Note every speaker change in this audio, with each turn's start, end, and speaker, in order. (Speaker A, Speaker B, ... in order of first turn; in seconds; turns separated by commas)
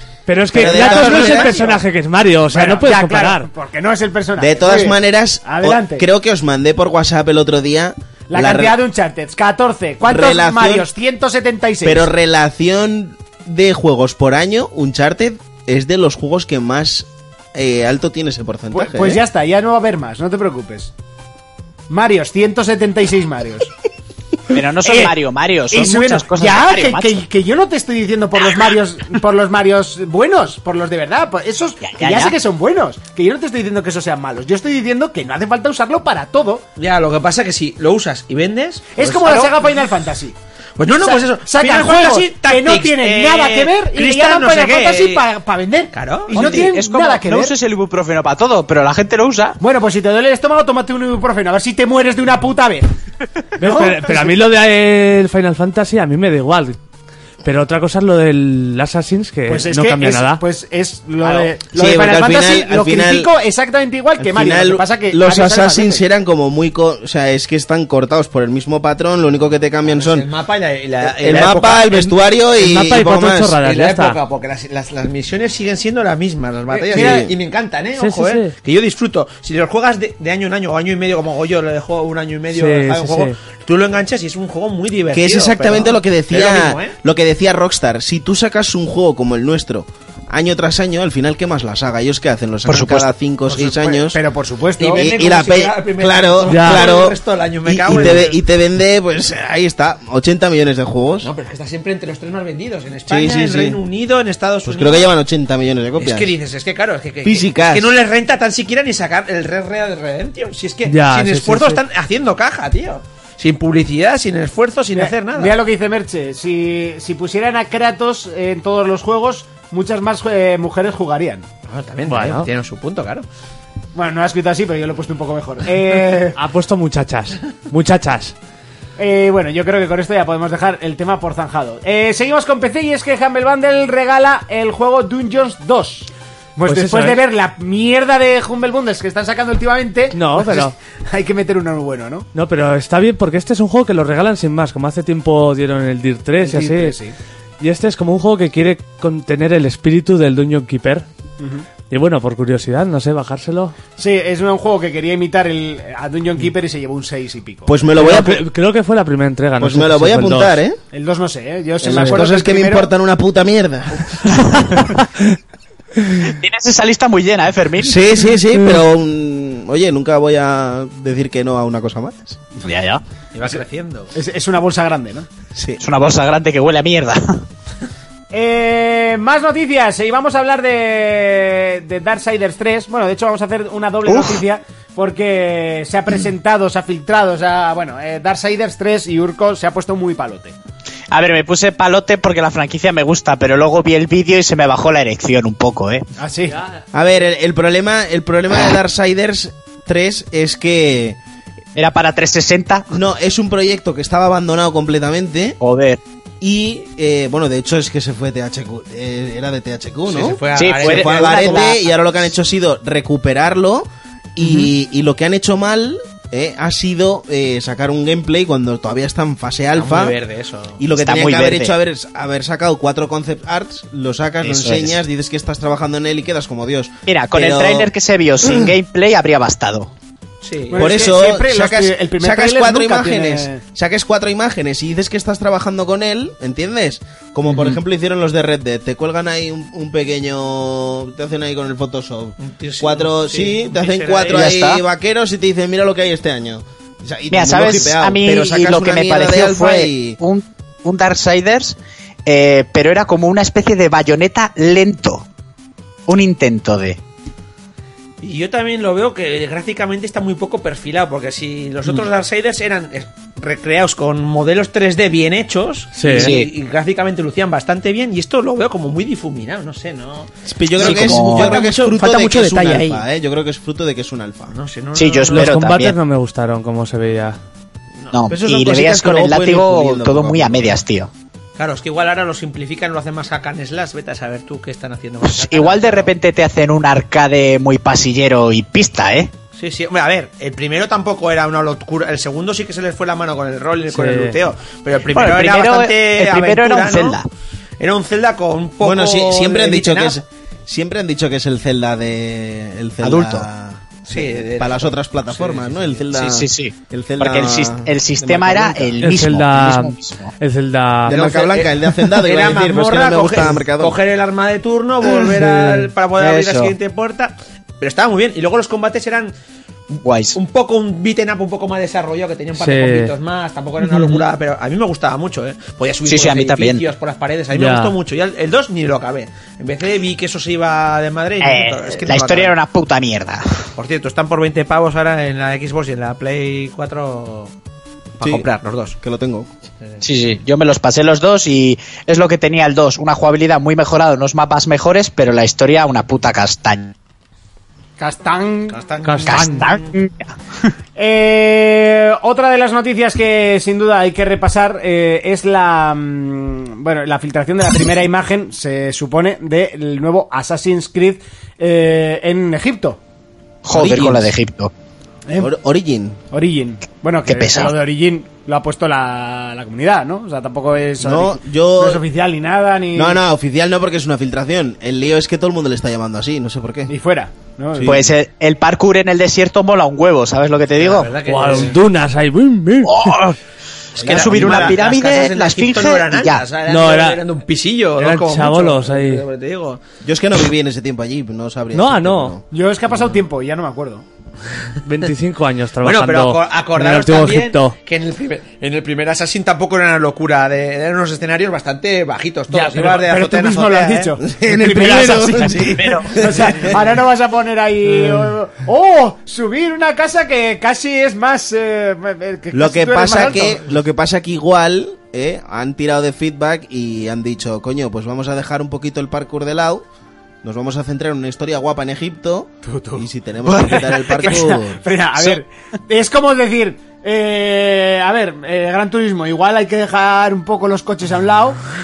Speaker A: 0.3-3.5, Speaker B: 0.5-1.6, Speaker C: 0.7-1.8, Speaker C: 2.5-6.0, Speaker B: 4.4-8.8, Speaker C: 8.3-12.1, Speaker B: 10.0-10.9, Speaker B: 11.8-19.2, Speaker C: 18.7-20.9, Speaker C: 21.9-23.7, Speaker D: 24.5-27.2, Speaker C: 24.8-25.1, Speaker C: 25.7-36.6, Speaker D: 31.8-32.3, Speaker E: 36.8-39.5, Speaker C: 38.9-40.4, Speaker E: 40.8-45.2, Speaker C: 41.0-47.5, Speaker E: 45.9-46.7, Speaker D: 46.3-49.6, Speaker C: 49.6-52.9, Speaker A: 53.6-56.8, Speaker C: 53.6-54.4, Speaker A: 57.4-60.4, Speaker C: 59.5-66.0, Speaker B: 61.7-63.3, Speaker B: 64.2-70.3, Speaker E: 69.8-72.1, Speaker B: 71.0-73.6, Speaker A: 72.6-74.2, Speaker E: 73.6-86.9, Speaker C: 76.7-77.2, Speaker B: 76.9-77.3, Speaker A: 78.0-78.5, Speaker A: 82.5-83.3, Speaker B: 85.1-94.2, Speaker D: 92.7-93.1, Speaker C: 93.5-95.1, Speaker E: 94.8-98.4, Speaker B: 95.0-101.3, Speaker A: 96.5-96.9, Speaker E: 101.2-105.1, Speaker B: 103.1-103.8, Speaker B: 104.6-106.3, Speaker E: 106.0-115.5, Speaker B: 107.2-107.9, Speaker A: 110.9-111.8, Speaker C: 114.9-121.5, Speaker E: 121.7-123.2, Speaker A: 122.0-122.5, Speaker C: 123.9-126.4, Speaker A: 126.3-128.3, Speaker C: 129.0-142.3, Speaker A: 136.7-137.2, Speaker A: 140.1-140.7, Speaker A: 142.3-146.9, Speaker C: 146.4-147.1, Speaker A: 147.6-151.1, Speaker C: 151.4-151.7, Speaker A: 151.9-153.7, Speaker C: 154.0-157.7, Speaker B: 157.7-158.4, Speaker A: 157.9-160.6, Speaker B: 159.6-160.8, Speaker C: 160.9-162.9, Speaker B: 161.8-164.4, Speaker D: 164.5-164.8, Speaker D: 166.2-168.0, Speaker B: 167.8-172.4, Speaker D: 172.6-173.0, Speaker E: 173.3-174.1, Speaker C: 174.1-175.3, Speaker D: 175.8-177.4, Speaker C: 178.3-190.5, Speaker D: 184.1-184.4, Speaker D: 191.1-196.1, Speaker C: 196.2-196.6, Speaker B: 196.9-201.2, Speaker D: 201.8-202.9, Speaker B: 202.9-205.6, Speaker D: 205.6-206.0, Speaker B: 206.4-220.2, Speaker E: 210.1-211.7, Speaker D: 210.5-211.8, Speaker D: 214.4-214.7, Speaker E: 219.7-220.8, Speaker B: 220.8-227.9, Speaker D: 220.9-221.7, Speaker D: 224.4-225.0, Speaker D: 227.1-229.9, Speaker E: 230.4-231.1, Speaker C: 230.7-233.6, Speaker B: 230.8-250.2, Speaker E: 242.4-244.5, Speaker D: 244.3-244.8, Speaker D: 247.3-251.7, Speaker D: 252.2-255.2, Speaker D: 256.1-257.0, Speaker E: 258.2-273.0, Speaker A: 265.9-266.3, Speaker D: 266.1-266.5, Speaker B: 270.5-274.5, Speaker D: 270.8-271.6, Speaker E: 274.5-275.6, Speaker D: 274.9-275.9, Speaker A: 275.3-277.4, Speaker D: 278.1-281.1, Speaker B: 278.3-280.8, Speaker E: 281.6-286.1, Speaker D: 285.2-289.3, Speaker E: 289.6-297.2, Speaker A: 293.9-294.4, Speaker D: 295.1-297.2, Speaker E: 297.8-300.2, Speaker B: 298.8-309.0, Speaker D: 303.0-303.4, Speaker E: 304.1-306.0, Speaker D: 306.1-310.3, Speaker A: 309.0-311.2, Speaker B: 311.1-314.0, Speaker E: 311.1-319.3, Speaker D: 315.4-316.7, Speaker D: 320.0-320.4, Speaker E: 320.3-332.5, Speaker A: 322.6-323.1, Speaker D: 326.1-326.8, Speaker A: 327.5-327.9, Speaker D: 331.4-333.4, Speaker E: 333.8-337.5, Speaker E: 338.2-338.9, Speaker B: 339.0-339.5, Speaker D: 340.0-346.9, Speaker C: 348.0-348.8, Speaker E: 348.7-349.9, Speaker A: 349.0-349.6, Speaker D: 349.2-350.2, Speaker C: 351.0-363.0, Speaker D: 363.6-364.7, Speaker E: 363.8-364.3, Speaker C: 365.3-365.5, Speaker B: 365.4-366.2, Speaker C: 366.3-373.2, Speaker D: 367.3-367.7, Speaker B: 371.0-372.0, Speaker B: 372.9-376.9, Speaker C: 376.9-378.0, Speaker B: 377.7-378.1, Speaker D: 377.8-381.1, Speaker E: 380.8-381.8, Speaker A: 381.2-383.1, Speaker D: 382.8-383.4, Speaker E: 383.9-389.8, Speaker D: 384.0-386.4, Speaker B: 384.0-384.8, Speaker A: 386.7-387.2, Speaker A: 388.0-389.2, Speaker B: 390.0-392.4, Speaker A: 391.7-392.4, Speaker C: 392.5-394.0, Speaker A: 394.8-397.8, Speaker E: 395.8-404.1, Speaker C: 402.5-413.6, Speaker B: 404.2-406.7, Speaker D: 405.5-406.2, Speaker B: 412.5-419.8, Speaker B: 420.4-424.8, Speaker C: 422.6-431.6